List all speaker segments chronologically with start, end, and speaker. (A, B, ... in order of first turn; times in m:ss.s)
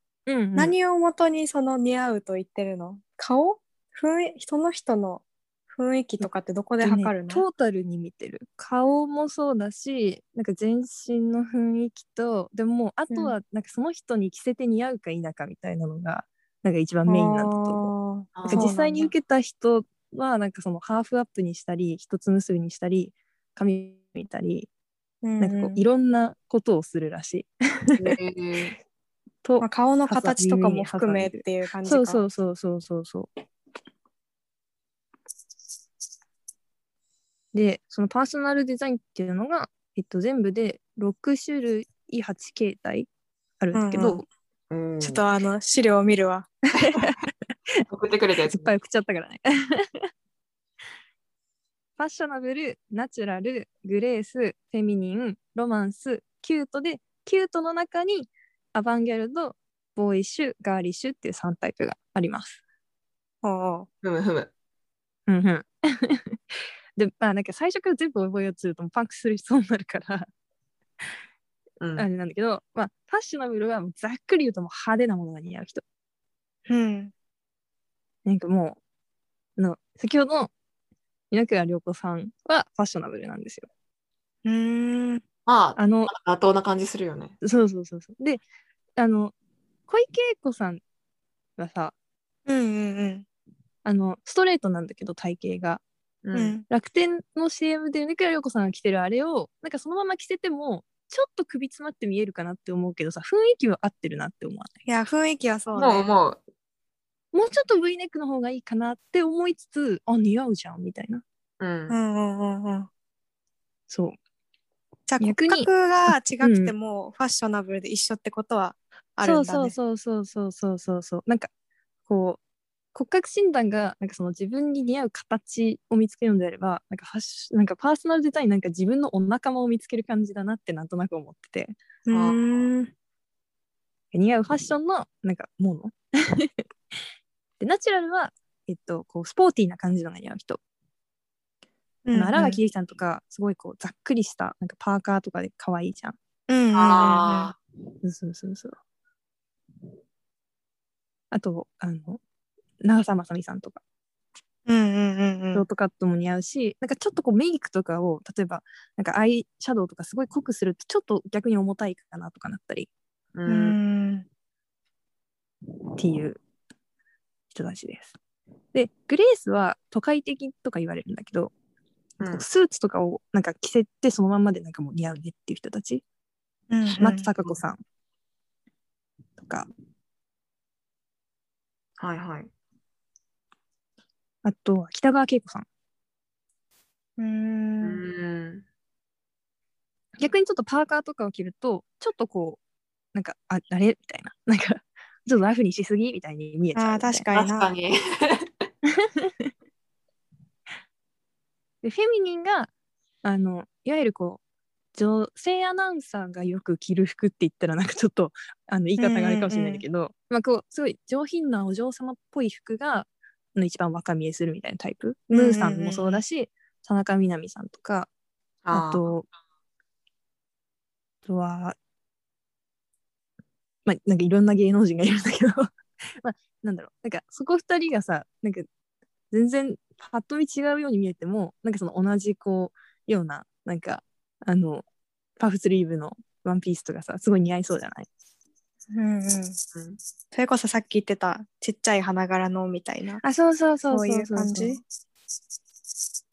0:00.2-0:00.8 A
0:00.5-0:07.4 B
0:06.8-0:17.9 A
0:17.1-0:19.1 B
0:18.4-0:18.7 C
0:18.4-0:24.7 A
0:25.2-0:25.8 B
0:25.4-0:28.2 A
0:28.0-0:28.8 C
0:29.4-0:33.3 A
0:29.6-0:32.2 B
0:37.5-0:43.1 A
0:43.6-0:44.2 A
0:43.7-0:44.2 B
0:44.7-0:45.2 C
0:45.0-0:46.5 B
0:46.8-0:47.1 A
0:46.8-0:47.1 C
0:47.9-0:48.7 C
0:48.5-0:50.1 A
0:52.0-1:02.6 A
1:03.4-1:03.9 B
1:04.0-1:04.5 C
1:05.3-1:10.3 A
1:11.8-1:12.1 C
1:12.0-1:15.8 A
1:16.7-1:17.1 B
1:18.2-1:18.8 A
1:19.6-1:20.5 A
1:21.3-1:23.7 A
1:24.4-1:25.2 B
1:25.4-1:27.3 C
1:25.8-1:26.1 A
1:27.4-1:28.4 A
1:29.0-1:29.3 A
1:29.9-1:30.8 A
1:31.6-1:31.9 A
1:32.5-1:33.2 B
1:33.8-1:35.8 A
1:36.2-1:36.6 C
1:36.3-1:36.6 B
1:36.7-1:44.7 A
1:44.9-1:46.1 B
1:45.7-1:46.4 C
1:47.3-1:51.2 A
1:51.6-1:52.0 C
1:51.9-1:52.9 B
1:53.9-1:54.2 A
1:55.1-1:59.7 B
1:55.2-1:55.7 A
1:56.4-1:56.7 A
1:59.2-2:01.5 A
2:02.1-2:02.4 A
2:02.9-2:11.8 A
2:12.0-2:12.9 B
2:12.1-2:12.4 C
2:14.1-2:16.6 A
2:17.6-2:20.6 A
2:22.1-2:22.6 B
2:22.1-2:26.2 A
2:26.5-2:27.5 B
2:26.7-2:27.6 C
2:28.0-2:28.8 A
2:31.3-2:32.2 A
2:32.8-2:33.8 A
2:34.6-2:35.6 B
2:35.5-2:42.9 A
2:43.3-2:43.8 C
2:43.4-2:44.3 B
2:46.0-2:46.4 A
2:47.5-2:48.2 A
2:48.7-2:51.5 A
2:52.3-2:56.0 A
2:56.7-2:57.3 B
2:57.0-2:57.8 A
2:59.4-2:59.7 A
3:02.0-3:02.5 C
3:04.4-3:05.7 A
3:07.2-3:08.0 B
3:07.8-3:08.6 C
3:10.2-3:12.6 A
3:13.1-3:17.3 A
3:16.7-3:17.7 B
3:17.3-3:18.5 C
3:18.9-3:19.5 A
3:21.8-3:22.7 A
3:23.2-3:24.4 A
3:24.9-3:38.1 A
3:29.0-3:29.8 B
3:35.3-3:36.2 B
3:38.6-3:39.0 C
3:38.7-3:39.3 A
3:41.2-3:41.8 A
3:43.8-3:45.7 A
3:46.2-3:48.7 A
3:49.3-3:54.8 A
3:55.4-3:58.1 A
3:58.9-3:59.6 B
4:00.3-4:03.2 B
4:03.2-4:04.8 A
4:03.9-4:04.8 B